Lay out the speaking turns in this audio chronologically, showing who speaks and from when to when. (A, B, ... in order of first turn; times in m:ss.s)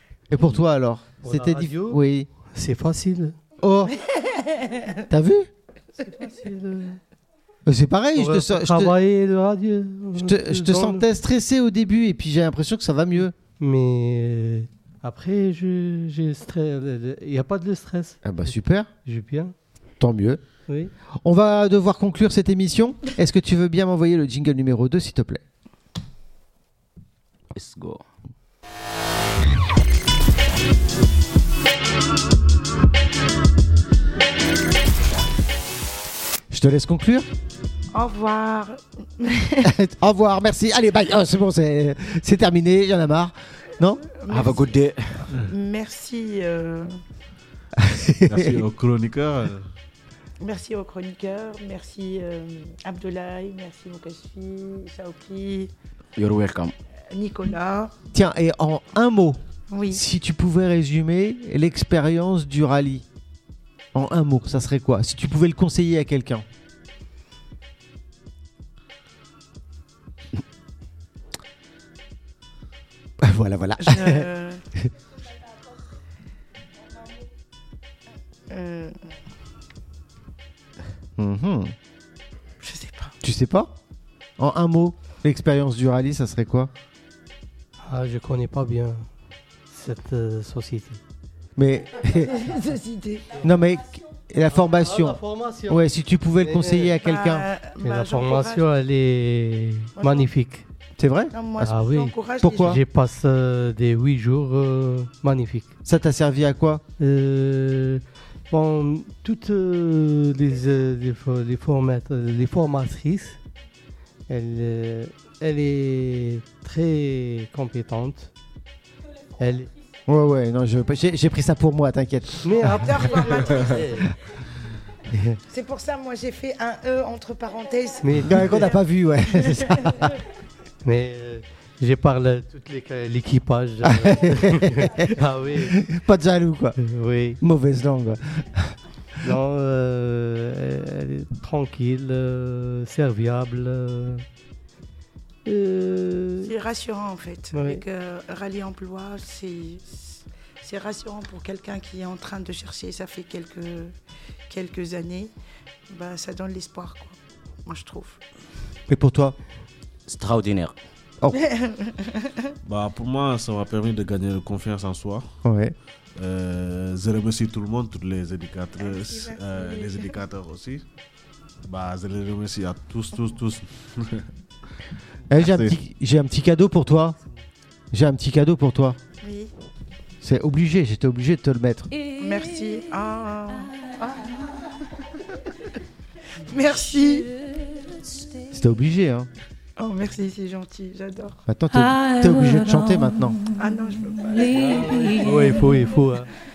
0:00.3-0:02.3 A
0:01.2-0:03.4 B
0:03.6-0:04.0 A
0:03.9-0:05.0 C
0:05.1-0:05.5 A
0:06.0-0:07.0 B
0:07.6-0:08.9 A
0:08.2-0:11.0 B
0:10.2-0:13.3 A
0:13.6-0:18.2 B
0:18.2-0:18.9 A
0:19.0-0:19.5 B
0:20.0-0:20.4 A
0:20.7-0:20.9 B
0:21.2-0:25.4 A
0:27.5-0:28.0 D
0:36.5-0:37.3 A
0:37.9-0:39.8 C
0:39.6-0:44.0 A
0:44.0-0:47.0 C
0:44.3-0:45.3 D
0:47.8-0:48.6 A
0:48.2-0:49.7 E
0:50.4-0:55.7 C
0:56.2-0:56.7 D
0:57.1-0:57.9 C
0:58.1-0:59.4 A
0:59.7-1:00.0 C
0:59.9-1:03.0 A
1:03.9-1:06.4 A
1:13.2-1:14.3 A
1:13.8-1:14.6 C
1:18.5-1:19.1 C
1:21.2-1:21.7 A
1:22.6-1:23.2 C
1:23.2-1:23.7 A
1:24.4-1:26.7 A
1:27.8-1:29.1 B
1:29.7-1:31.0 B
1:31.6-1:32.3 A
1:32.1-1:33.4 C
1:33.4-1:37.5 A
1:34.5-1:35.9 B
1:36.4-1:37.0 B
1:37.0-1:38.6 C
1:37.8-1:40.6 B
1:40.0-1:40.3 C
1:41.0-1:41.7 A
1:41.3-1:42.8 C
1:41.6-1:45.7 B
1:42.4-1:42.8 A
1:45.8-1:46.8 A
1:47.0-1:53.4 B
1:54.3-1:58.3 B
1:59.4-1:59.7 B
2:00.1-2:02.9 A
2:02.4-2:04.1 B
2:02.7-2:04.1 C
2:05.1-2:05.4 A
2:05.5-2:10.2 C
2:08.0-2:08.7 B
2:08.2-2:10.1 A
2:10.8-2:15.8 B
2:13.8-2:16.8 A
2:16.8-2:17.4 B
2:17.4-2:18.8 A
2:19.2-2:24.2 B
2:25.4-2:26.5 B
2:26.4-2:33.9 C
2:27.5-2:27.8 B
2:34.5-2:35.3 C
2:35.9-2:38.2 C
2:38.9-2:39.4 A
2:40.1-2:40.7 D
2:41.3-2:42.6 C
2:42.6-2:45.3 E
2:45.4-2:45.7 A
2:46.2-2:50.8 E
2:48.8-2:50.1 C
2:51.6-2:54.3 E
2:55.3-2:57.2 A
2:55.3-2:55.8 E
2:57.9-2:59.0 A
2:59.2-2:59.5 C
3:00.2-3:01.9 A
3:02.0-3:05.7 C
3:06.3-3:07.5 C
3:08.5-3:09.3 A
3:09.8-3:11.4 C
3:11.5-3:13.4 A
3:13.5-3:15.3 C
3:14.4-3:16.3 B